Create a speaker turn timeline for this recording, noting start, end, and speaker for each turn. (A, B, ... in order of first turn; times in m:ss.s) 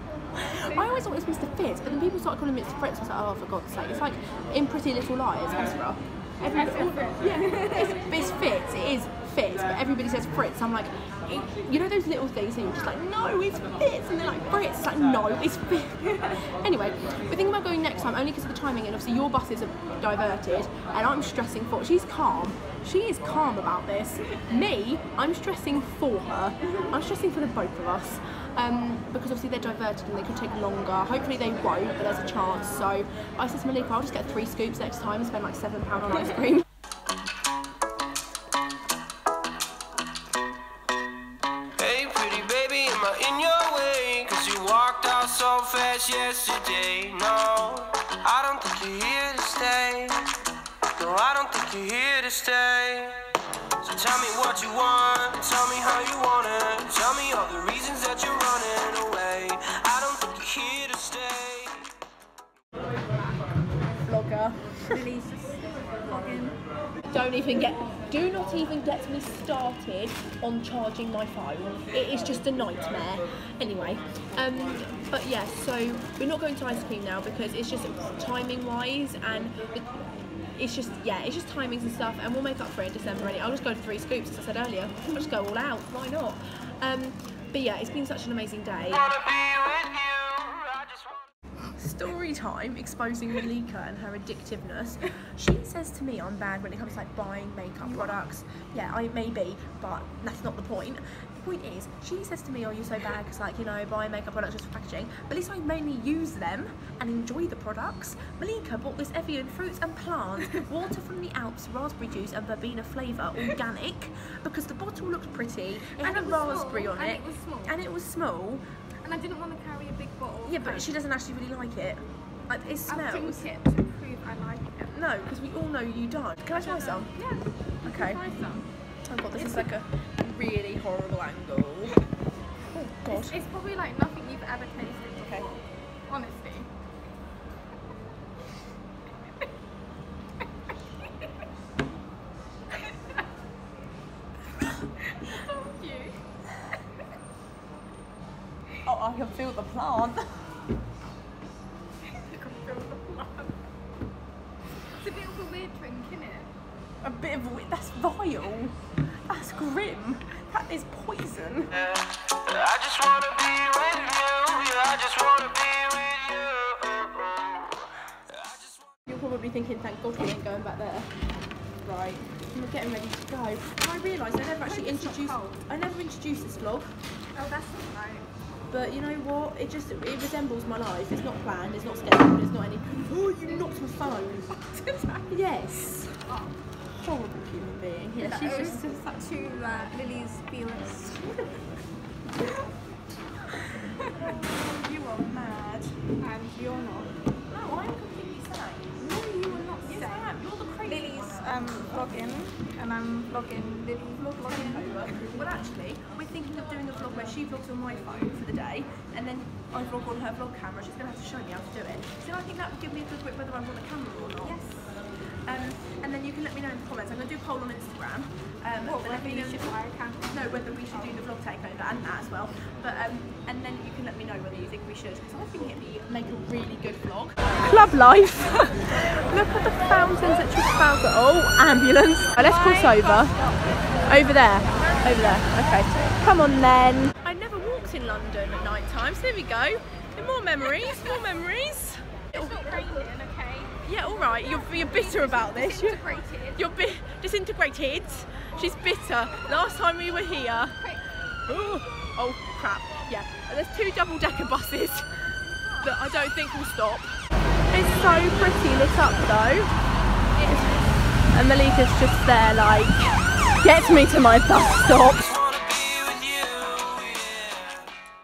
0:00.3-0:36.6 A
0:06.4-0:08.0 B
0:41.8-0:50.3 C
0:51.0-0:53.3 C
0:53.8-1:01.9 C
1:04.1-1:04.6 A
1:04.9-1:06.6 B
1:07.1-1:19.9 A
1:20.6-1:29.1 A
1:28.9-1:31.3 C
1:31.8-1:58.7 A
1:56.0-1:57.8 B
1:59.0-2:00.9 B
2:00.4-2:03.5 A
2:02.9-2:04.9 B
2:04.9-2:07.1 A
2:06.5-2:08.7 B
2:07.8-2:08.2 A
2:09.1-2:12.0 A
2:09.3-2:09.7 B
2:12.7-2:13.4 A
2:13.1-2:16.7 B
2:15.2-2:15.5 A
2:25.0-2:26.2 B
2:28.8-2:30.3 A
2:32.0-2:33.6 B
2:35.0-2:36.5 B
2:37.0-2:38.8 A
2:39.3-2:41.7 A
2:41.7-2:48.9 C
2:49.1-2:51.1 A
2:51.8-2:56.9 A
2:54.6-2:55.6 B
2:57.4-2:58.3 B
2:58.7-3:04.6 A
3:04.6-3:05.3 B
3:05.3-3:06.2 A
3:06.3-3:06.5 B
3:06.9-3:08.8 A
3:08.2-3:11.3 B
3:14.0-3:14.3 B
3:14.0-3:16.0 A
3:16.2-3:17.1 B
3:17.5-3:19.0 A
3:19.0-3:20.3 B
3:19.8-3:22.2 A
3:20.9-3:25.4 B
3:24.3-3:34.6 A
3:34.4-3:35.0 B
3:35.5-3:39.7 A
3:38.8-3:41.2 B
3:40.3-3:53.3 A
3:52.4-3:55.4 B
3:54.0-4:03.0 A
4:00.8-4:01.2 B
4:02.3-4:03.8 B
4:03.8-4:10.8 A
4:04.4-4:06.7 B
4:11.5-4:15.1 A
4:15.8-4:17.2 A
4:17.7-4:19.7 A
4:20.5-4:25.2 A
4:24.8-4:28.0 C